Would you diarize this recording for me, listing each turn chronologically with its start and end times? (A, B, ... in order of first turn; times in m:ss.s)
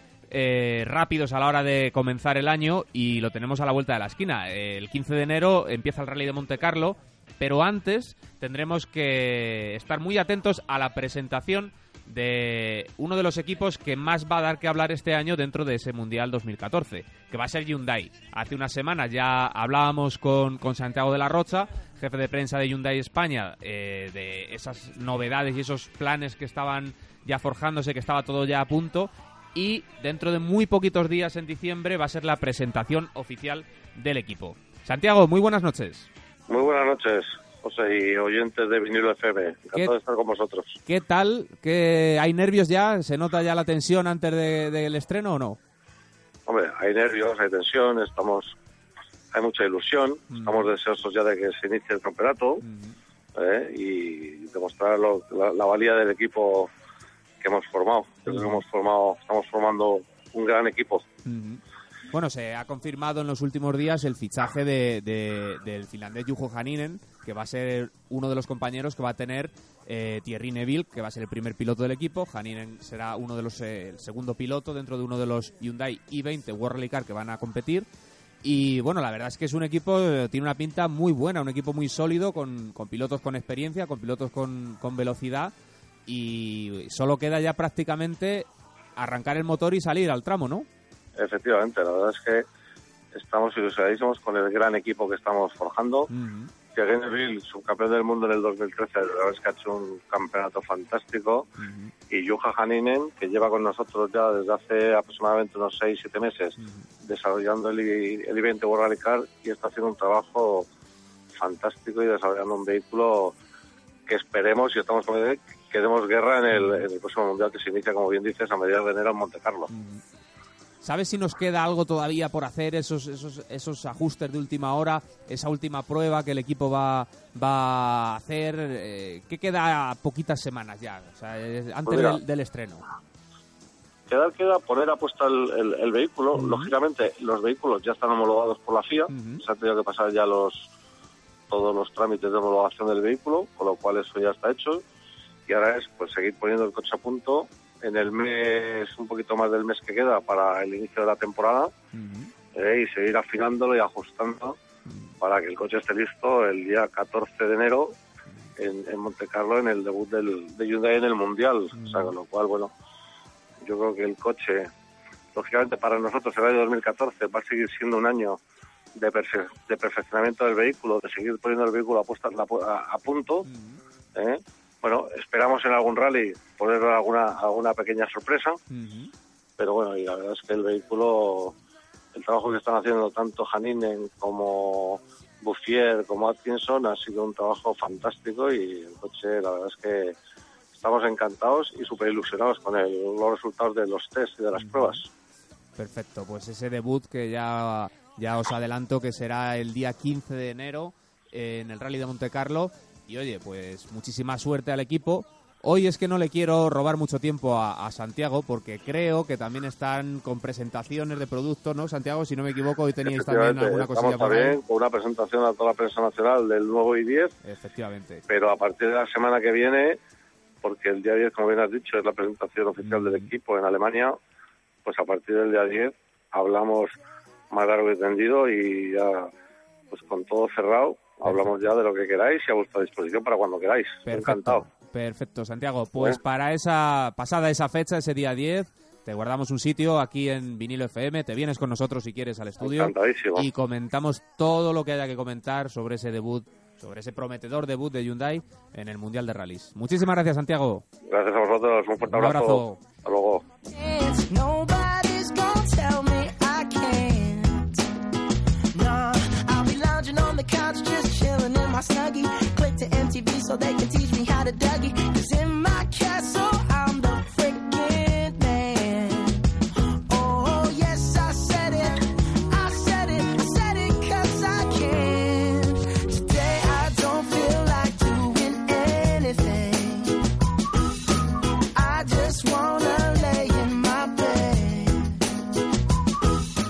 0:00.3-0:36.1 A
0:36.5-0:40.8 B
0:40.9-0:45.6 A
0:46.5-0:48.6 B
0:49.3-0:52.6 B
0:50.3-0:50.7 A
0:52.6-0:53.0 A
0:53.4-0:56.7 B
0:57.4-1:01.1 B
0:58.3-0:58.6 A
1:01.2-1:17.9 A
1:18.4-1:25.5 A
1:26.1-1:30.7 A
1:31.2-1:32.4 B
1:33.1-1:36.1 B
1:36.1-1:36.5 A
1:36.7-1:41.5 B
1:41.6-1:41.9 A
1:42.1-1:50.7 B
1:46.6-1:46.9 A
1:51.4-1:53.3 B
1:54.1-1:59.7 B
1:56.5-1:56.8 A
1:59.7-2:00.0 A
2:00.8-2:12.9 A
2:11.9-2:12.2 B
2:14.1-2:20.7 B
2:16.3-2:16.7 A
2:19.1-2:19.4 A
2:21.5-2:24.8 B
2:25.5-2:31.7 B
2:31.9-2:32.3 A
2:32.6-2:34.6 B
2:35.2-2:38.0 B
2:38.6-2:42.7 B
2:41.7-2:42.1 A
2:43.6-2:44.7 B
2:45.4-2:48.4 B
2:49.0-2:53.5 B
2:53.5-2:53.8 A
2:54.2-2:58.6 B
2:58.7-2:59.1 A
2:59.6-3:01.5 B
3:02.1-3:10.2 B
3:10.7-3:15.1 B
3:14.6-3:15.0 A
3:15.8-3:34.6 A
3:33.0-3:37.4 B
3:37.4-3:38.2 A
3:38.3-3:40.0 B
3:40.6-3:44.2 B
3:42.8-3:43.3 A
3:44.8-3:46.9 B
3:47.5-3:49.3 B
3:49.9-3:54.6 B
3:54.1-4:10.8 A
4:02.6-4:03.5 B
4:11.1-4:13.4 B
4:12.0-4:12.8 A
4:13.7-4:17.8 C
4:18.7-4:29.4 C
4:30.1-4:40.2 C
4:41.7-4:45.2 C